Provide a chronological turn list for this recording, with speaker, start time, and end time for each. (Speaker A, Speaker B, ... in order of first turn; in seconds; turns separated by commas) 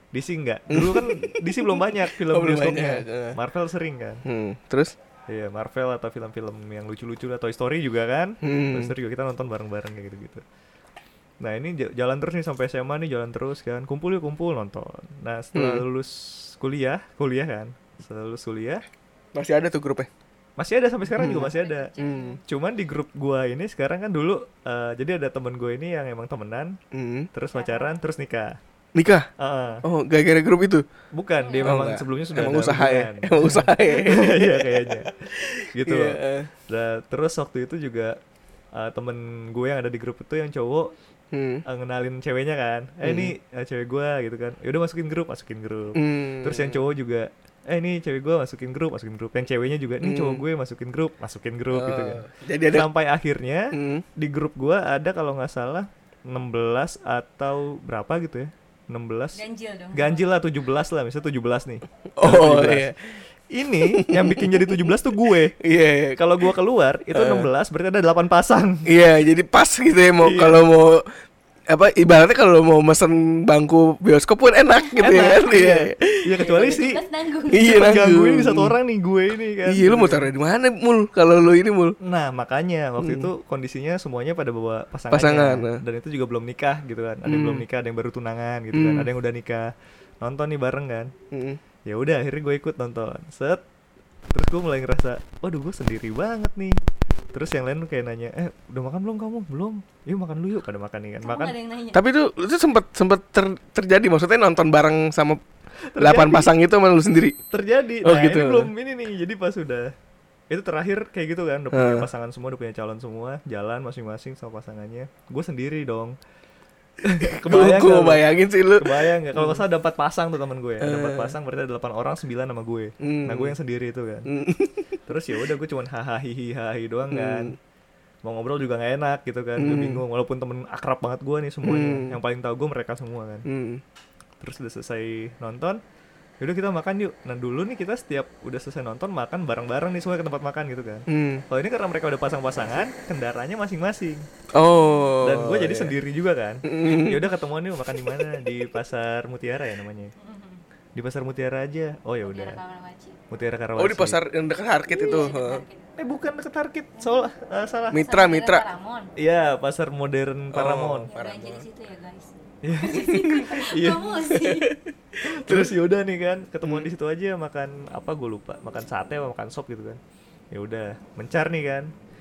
Speaker A: 0.1-4.2, Speaker B: 0.7-3.4, Speaker B: 4.2-5.0, Speaker A: 5.3-10.4, Speaker B: 8.4-8.9, Speaker A: 11.4-18.8, Speaker B: 15.5-15.8, Speaker B: 19.4-20.1, Speaker A: 20.6-21.9, Speaker B: 21.1-22.4, Speaker C: 21.5-22.4, Speaker A: 22.4-26.8, Speaker B: 26.9-27.3, Speaker A: 27.3-28.6, Speaker C: 27.5-27.9, Speaker B: 28.9-29.3, Speaker A: 29.4-29.8, Speaker B: 29.8-30.9, Speaker A: 31.1-38.2, Speaker C: 31.4-31.9, Speaker B: 31.6-36.5, Speaker A: 38.8-40.9, Speaker B: 41.3-41.6, Speaker A: 41.7-59.4, Speaker B: 43.0-43.3, Speaker B: 46.0-46.8, Speaker B: 50.0-50.4, Speaker B: 51.7-52.9, Speaker B: 53.7-54.0, Speaker C: 59.4-60.2, Speaker A: 59.9-62.9, Speaker B: 62.2-63.1, Speaker A: 63.5-65.6, Speaker B: 63.8-64.9, Speaker B: 65.6-66.2, Speaker A: 66.2-68.9, Speaker B: 67.1-67.5, Speaker B: 68.9-71.1, Speaker A: 70.2-70.7, Speaker B: 71.7-76.8, Speaker C: 74.8-75.2, Speaker A: 75.0-77.0, Speaker C: 76.4-77.9, Speaker B: 77.5-78.8, Speaker A: 77.6-80.3, Speaker B: 79.7-82.0, Speaker A: 82.0-89.7, Speaker B: 83.0-83.3, Speaker B: 85.1-85.8, Speaker B: 87.2-87.7, Speaker B: 88.7-89.1, Speaker A: 90.2-91.1, Speaker B: 91.3-91.6, Speaker A: 91.9-93.6, Speaker A: 94.3-96.8, Speaker A: 97.3-101.5, Speaker C: 101.2-102.0, Speaker B: 101.9-105.4, Speaker A: 105.9-106.5, Speaker B: 106.0-107.4, Speaker A: 107.5-109.9, Speaker B: 108.0-108.7, Speaker A: 110.5-116.2, Speaker B: 111.7-112.1, Speaker A: 117.0-118.2, Speaker B: 117.3-119.6, Speaker A: 118.8-124.3, Speaker B: 120.8-121.3, Speaker B: 123.0-123.5, Speaker B: 124.3-124.9, Speaker A: 125.1-127.6, Speaker B: 127.1-127.6, Speaker A: 128.2-133.4, Speaker B: 129.6-130.0, Speaker B: 131.6-132.2, Speaker B: 133.5-133.8, Speaker A: 134.4-135.8, Speaker A: 136.4-144.2, Speaker B: 141.1-141.4, Speaker B: 144.5-145.9, Speaker A: 145.2-150.1, Speaker B: 146.7-147.2, Speaker C: 150.2-150.6, Speaker A: 151.0-152.6, Speaker C: 152.2-153.2, Speaker A: 153.3-154.2, Speaker B: 153.8-155.6, Speaker C: 154.9-155.9, Speaker A: 156.0-158.0, Speaker C: 157.0-157.2, Speaker B: 157.9-158.7, Speaker C: 157.9-159.1, Speaker A: 159.2-161.1, Speaker B: 160.5-161.7, Speaker C: 161.1-164.8, Speaker A: 162.6-164.3, Speaker B: 164.4-165.8, Speaker A: 165.3-170.0, Speaker B: 166.6-166.9, Speaker A: 170.5-171.9